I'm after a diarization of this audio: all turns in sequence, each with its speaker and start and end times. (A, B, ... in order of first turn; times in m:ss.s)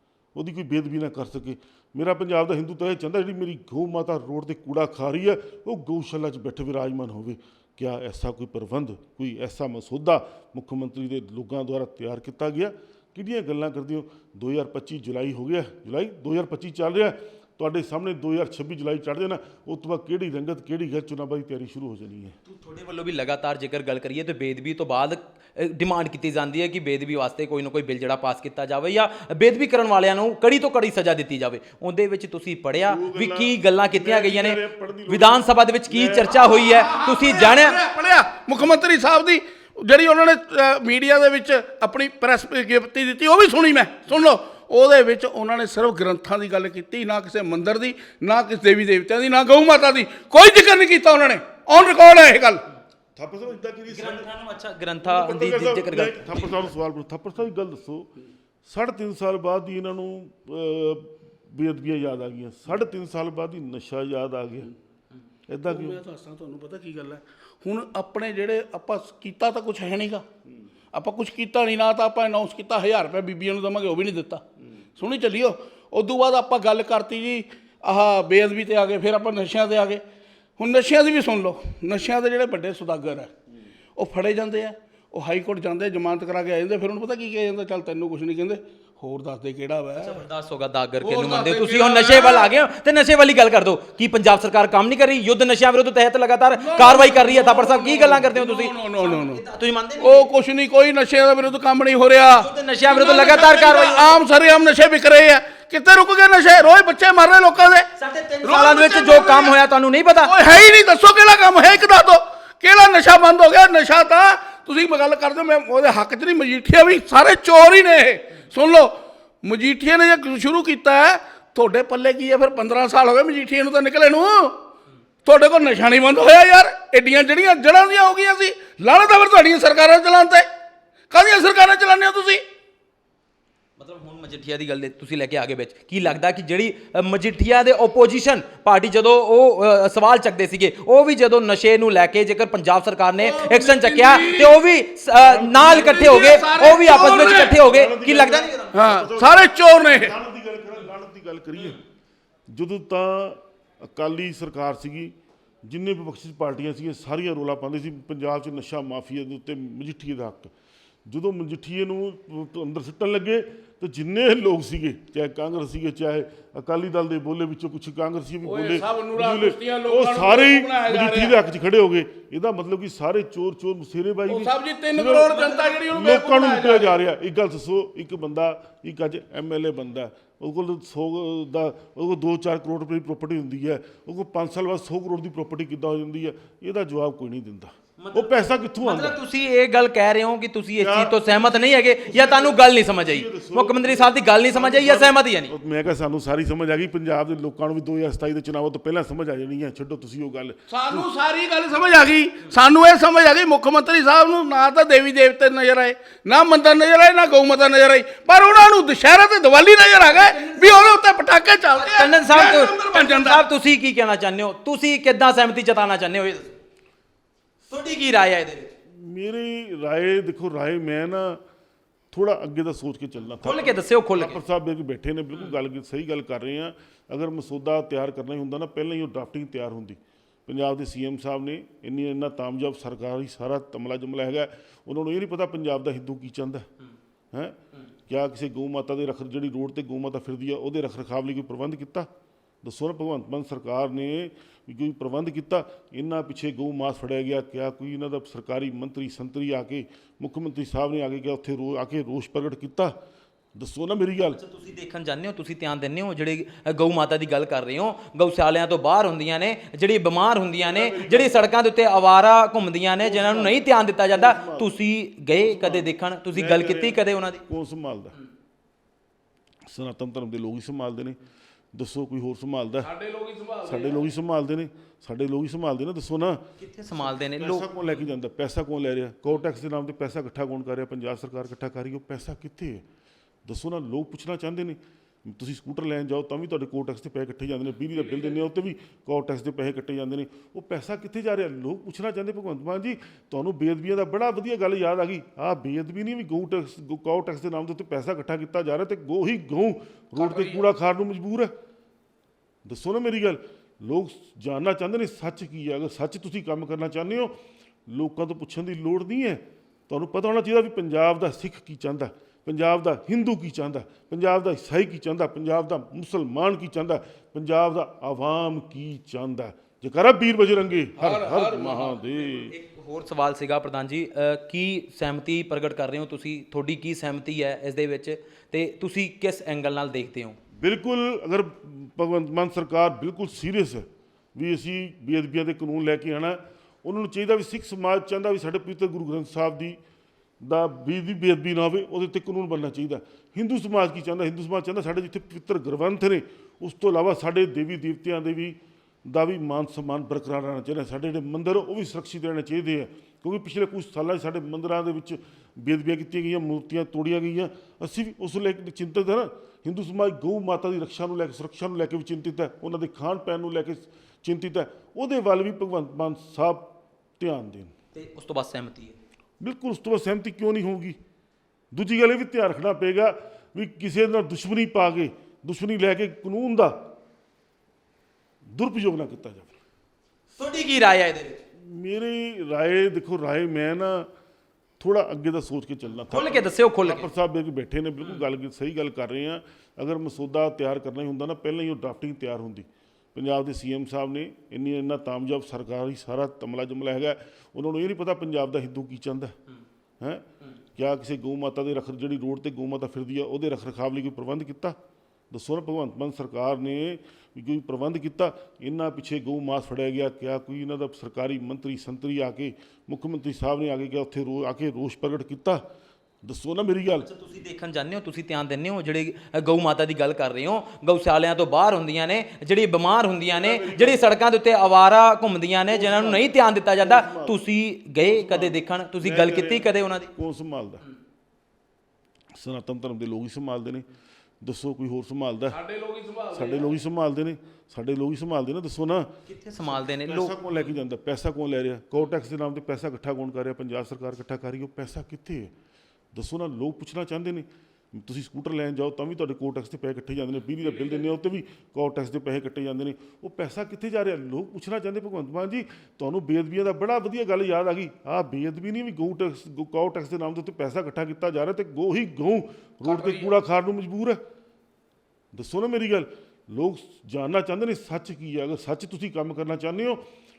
0:00.3-0:22.4 A
0:22.4-0:37.8 B
0:32.8-0:36.6 A
0:36.4-0:52.6 C
0:53.2-0:54.3 A
0:53.9-0:56.7 B
0:55.0-0:58.1 A
0:58.6-1:04.7 A
1:05.5-1:06.0 A
1:05.7-1:10.2 C
1:10.9-1:14.4 C
1:15.0-1:20.0 C
1:20.6-1:23.3 C
1:24.0-1:30.2 C
1:30.0-1:40.3 B
1:31.0-1:32.5 C
1:36.6-1:39.4 C
1:40.0-1:47.9 C
1:42.3-1:44.2 B
1:48.0-1:50.3 B
1:48.4-1:49.5 C
1:50.2-2:04.6 C
2:05.2-2:10.5 C
2:11.1-2:12.4 C
2:13.8-2:28.8 B
2:23.2-2:24.6 C
2:25.1-2:26.2 A
2:25.6-2:27.6 C
2:26.8-2:31.8 A
2:28.7-2:30.1 C
2:32.5-2:35.1 A
2:35.6-2:40.5 A
2:41.0-3:09.2 A
2:48.4-2:51.4 C
2:54.3-2:56.9 C
3:08.0-3:15.5 B
3:10.8-3:21.0 A
3:20.7-3:33.4 C
3:30.1-3:30.9 B
3:31.7-3:36.6 B
3:37.7-3:38.7 B
3:38.9-3:41.4 A
3:42.1-3:56.7 A
3:43.4-3:44.4 B
3:45.3-3:45.6 B
3:57.3-4:02.1 A
4:02.6-4:12.9 A
4:13.6-4:14.4 A
4:14.4-4:27.4 B
4:20.6-4:21.4 A
4:23.0-4:24.7 A
4:25.3-4:28.1 A
4:29.7-4:31.2 A
4:31.7-4:32.9 A
4:32.8-4:34.0 C
4:33.6-4:36.4 A
4:36.6-4:37.8 B
4:36.9-4:42.8 A
4:43.4-5:01.5 A
5:00.2-5:00.7 C
5:02.6-5:07.4 A
5:07.9-5:22.5 A
5:21.0-5:21.8 C
5:21.6-5:30.4 B
5:30.6-5:39.8 A
5:40.4-6:07.7 A
6:07.9-6:09.0 B
6:09.4-6:11.0 A
6:11.7-6:16.8 A
6:18.5-6:19.5 A
6:20.4-6:21.4 B
6:21.6-6:24.1 A
6:24.8-6:39.3 A
6:26.1-6:27.0 B
6:40.0-6:44.8 A
6:45.3-6:55.6 A
6:56.2-6:57.1 A
6:57.0-7:10.1 B
7:03.3-7:04.0 A
7:05.7-7:07.4 A
7:08.0-7:10.8 A
7:12.4-7:13.8 A
7:14.4-7:15.6 A
7:15.5-7:16.7 C
7:16.3-7:25.5 A
7:19.3-7:20.6 B
7:26.1-7:44.2 A
7:42.8-7:43.3 C
7:45.3-7:50.0 A